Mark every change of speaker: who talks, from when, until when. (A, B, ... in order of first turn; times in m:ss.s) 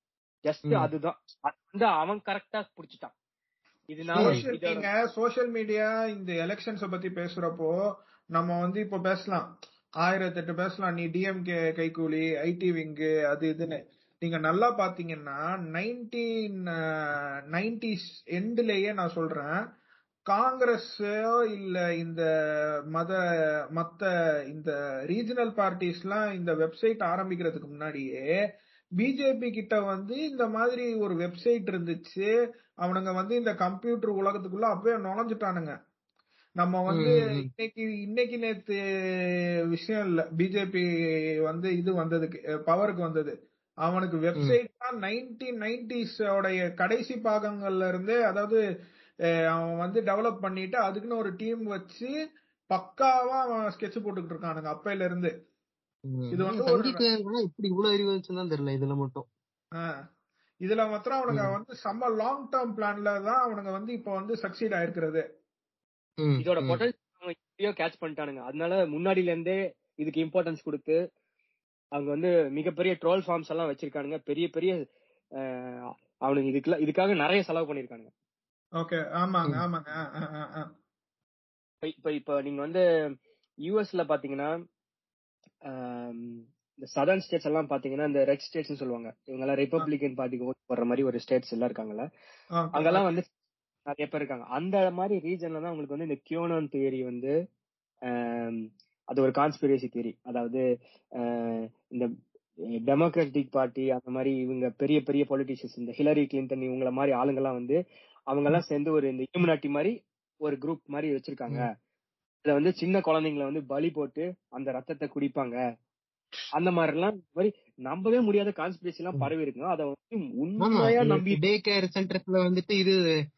0:00.4-0:03.1 A
0:03.9-0:04.8 A
0:04.2-0:07.7 B
0:08.3-0:09.5 B
0:10.0-0:19.6 B
0:20.3-0:22.2 B
0:23.8-0:28.2 B
0:29.0-0:32.3 B
0:32.8-0:35.7 B
0:36.6-0:40.8 B
0:36.9-0:37.5 C
0:41.4-0:43.3 B
0:43.8-0:48.6 B
0:49.5-0:52.1 B
0:52.7-0:55.3 B
0:56.1-0:59.3 C
0:56.3-0:57.0 B
1:00.6-1:05.2 B
1:06.2-1:06.8 C
1:06.4-1:11.0 A
1:11.9-1:14.8 A
1:15.4-1:18.1 A
1:18.8-1:20.7 B
1:21.8-1:22.8 A
1:23.7-1:24.5 A
1:25.6-1:32.0 A
1:32.6-1:33.1 B
1:32.7-1:33.3 A
1:33.8-1:37.3 A
1:38.1-1:40.6 A
1:41.2-1:42.1 A
1:42.9-1:47.8 A
1:48.3-1:51.7 A
1:52.4-1:55.6 A
1:56.6-2:01.4 A
2:00.6-2:03.0 C